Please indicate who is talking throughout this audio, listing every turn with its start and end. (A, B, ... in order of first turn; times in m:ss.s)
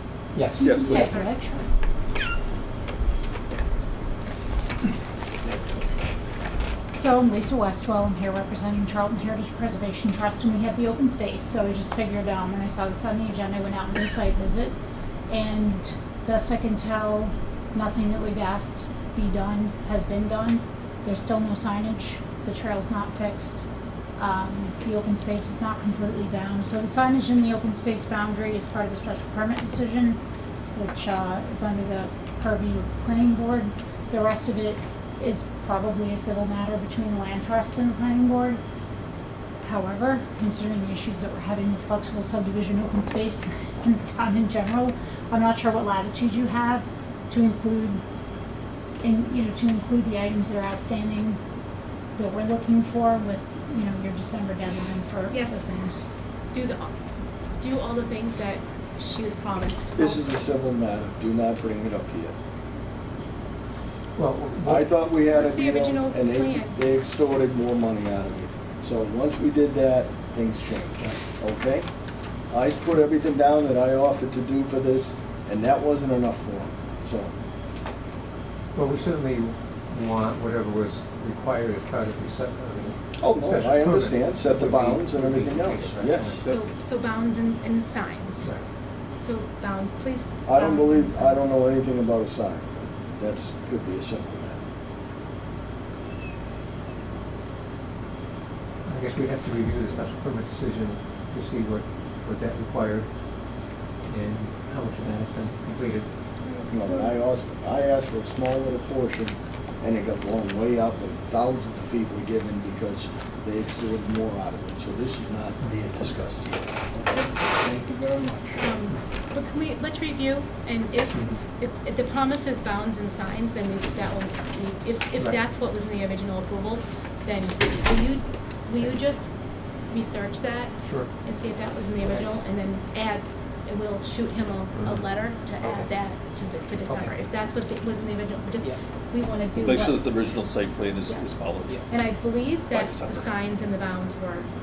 0:00.3-0:00.7 A
0:00.5-0:01.7 B
0:00.6-0:01.3 C
0:00.8-0:01.3 D
0:06.9-0:14.7 B
0:15.3-0:23.6 B
0:24.2-0:30.2 B
0:30.7-0:38.6 B
0:39.6-0:48.0 B
0:49.0-0:51.4 B
0:52.2-0:56.0 B
0:55.3-0:55.7 D
0:56.5-0:56.9 D
0:57.6-1:00.4 D
1:00.0-1:02.3 E
1:04.2-1:04.9 A
1:04.6-1:11.9 E
1:05.3-1:06.8 D
1:12.5-1:17.3 E
1:18.7-1:26.4 A
1:23.2-1:26.4 E
1:26.4-1:28.5 D
1:29.2-1:31.4 D
1:30.4-1:34.6 E
1:38.8-1:43.1 A
1:44.1-1:46.1 A
1:46.4-1:47.1 D
1:46.6-1:58.6 E
1:58.6-2:09.3 D
2:01.1-2:01.4 A
2:09.8-2:20.4 D
2:10.8-2:11.1 A
2:14.8-2:15.1 A
2:16.8-2:17.2 A
2:19.6-2:21.8 C
2:21.9-2:24.5 D
2:22.7-2:23.3 C